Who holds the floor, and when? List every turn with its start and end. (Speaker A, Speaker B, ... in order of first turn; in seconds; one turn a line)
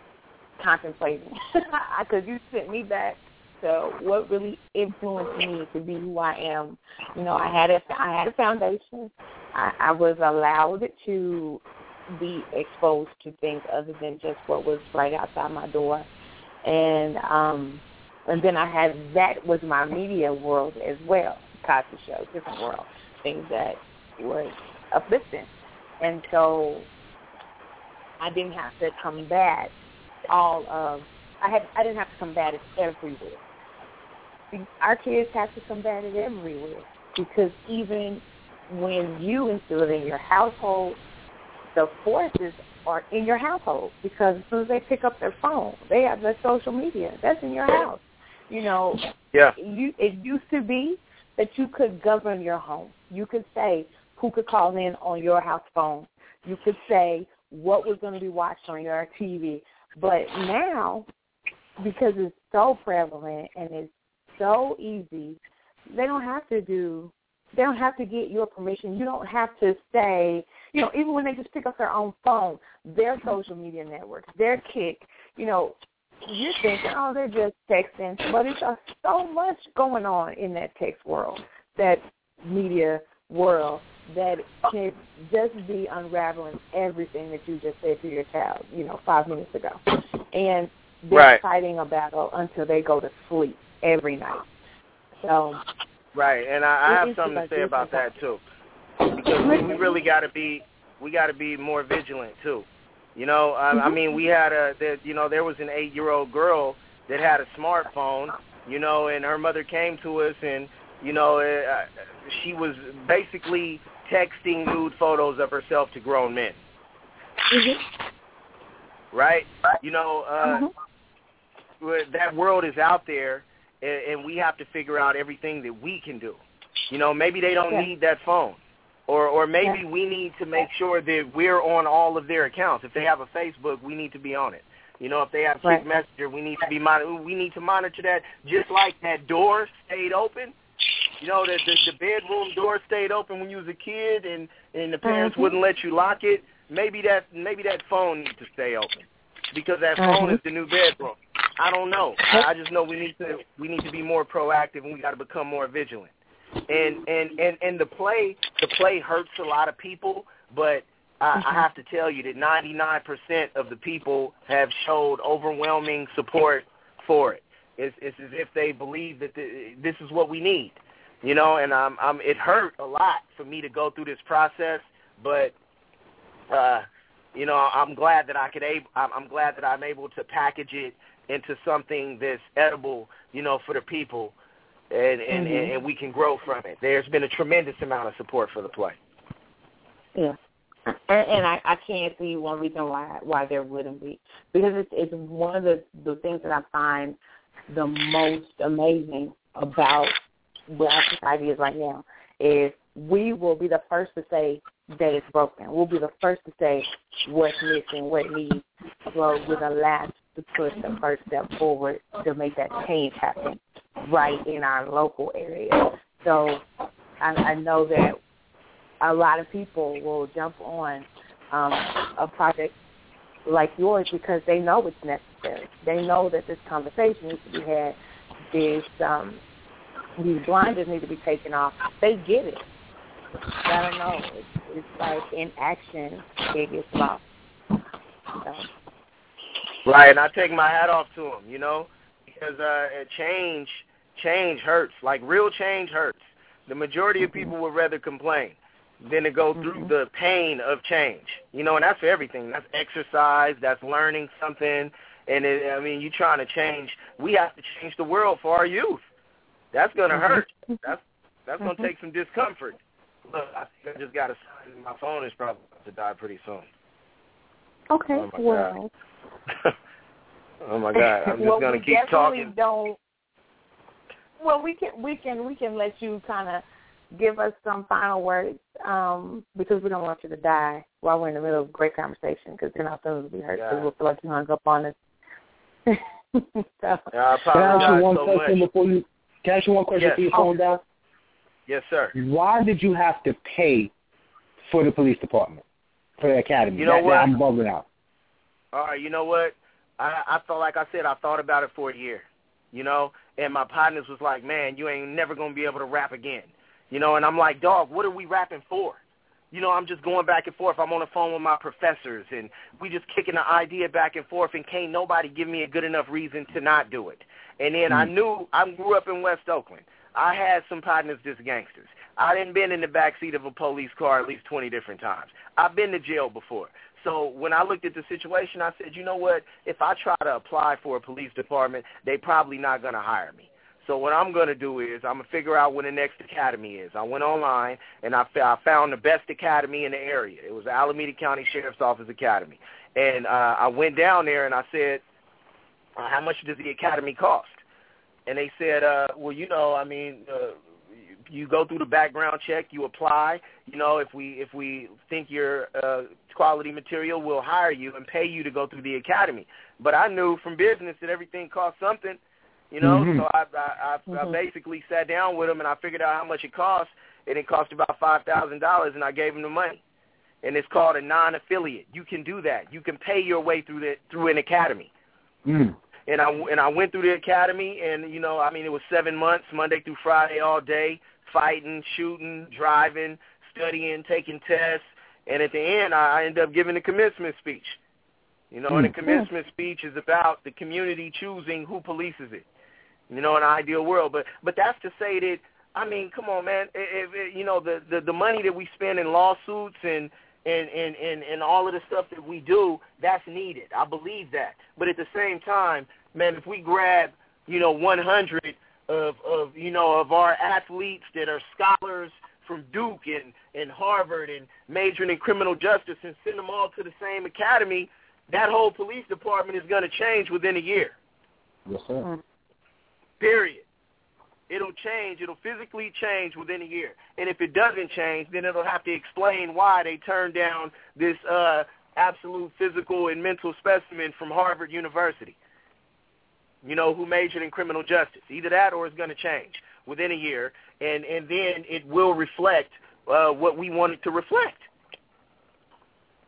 Speaker A: 0.6-16.1
Speaker A: 16.6-25.5
Speaker A: 26.0-26.9
Speaker A: 28.2-29.7
Speaker A: 30.3-33.4
Speaker A: 34.5-41.0
Speaker A: 41.7-49.0
Speaker A: 49.6-61.0
Speaker A: 61.8-75.7
Speaker A: 76.2-89.8
Speaker A: 90.3-94.5
Speaker B: 91.1-91.4
Speaker A: 95.2-95.6
Speaker B: 96.1-98.4
Speaker A: 96.8-98.0
Speaker B: 99.1-116.6
Speaker A: 99.2-100.0
Speaker A: 103.7-104.1
Speaker A: 117.5-117.8
Speaker B: 119.1-120.6
Speaker A: 120.4-120.7
Speaker B: 121.8-140.5
Speaker B: 141.2-156.1
Speaker A: 145.0-145.5
Speaker A: 150.0-150.4
Speaker B: 156.7-175.5
Speaker B: 176.5-184.3
Speaker B: 184.9-189.0
Speaker A: 185.3-185.7
Speaker A: 190.9-197.2
Speaker A: 197.7-200.1
Speaker A: 200.7-216.6
Speaker A: 217.2-218.2
Speaker A: 219.0-222.7
Speaker A: 223.4-227.9
Speaker A: 228.5-229.4
Speaker A: 230.2-232.6
Speaker A: 233.6-237.2
Speaker A: 238.4-238.7
Speaker B: 239.8-259.0
Speaker A: 249.6-249.9
Speaker B: 259.7-266.7
Speaker A: 260.1-260.7
Speaker A: 261.6-261.9
Speaker A: 267.9-268.9
Speaker B: 268.1-268.7
Speaker B: 270.6-272.5
Speaker A: 270.9-273.0
Speaker A: 274.4-284.9
Speaker B: 283.5-283.9
Speaker A: 285.9-287.1
Speaker B: 287.1-288.6
Speaker C: 287.5-290.8
Speaker A: 287.6-288.0
Speaker B: 289.9-290.3
Speaker B: 291.7-292.1
Speaker C: 292.1-293.9
Speaker C: 294.6-295.6
Speaker C: 296.2-297.8
Speaker B: 296.8-297.3
Speaker B: 298.7-309.0
Speaker B: 309.5-345.0
Speaker B: 345.9-347.6
Speaker B: 348.2-362.2
Speaker B: 362.7-369.8
Speaker C: 362.8-363.2
Speaker A: 364.1-364.3
Speaker B: 370.4-374.9
Speaker C: 375.4-375.7
Speaker B: 376.1-387.8
Speaker B: 388.5-392.4
Speaker B: 393.1-420.9
Speaker C: 421.7-422.1
Speaker B: 423.2-423.6
Speaker B: 424.5-435.4
Speaker B: 436.6-444.6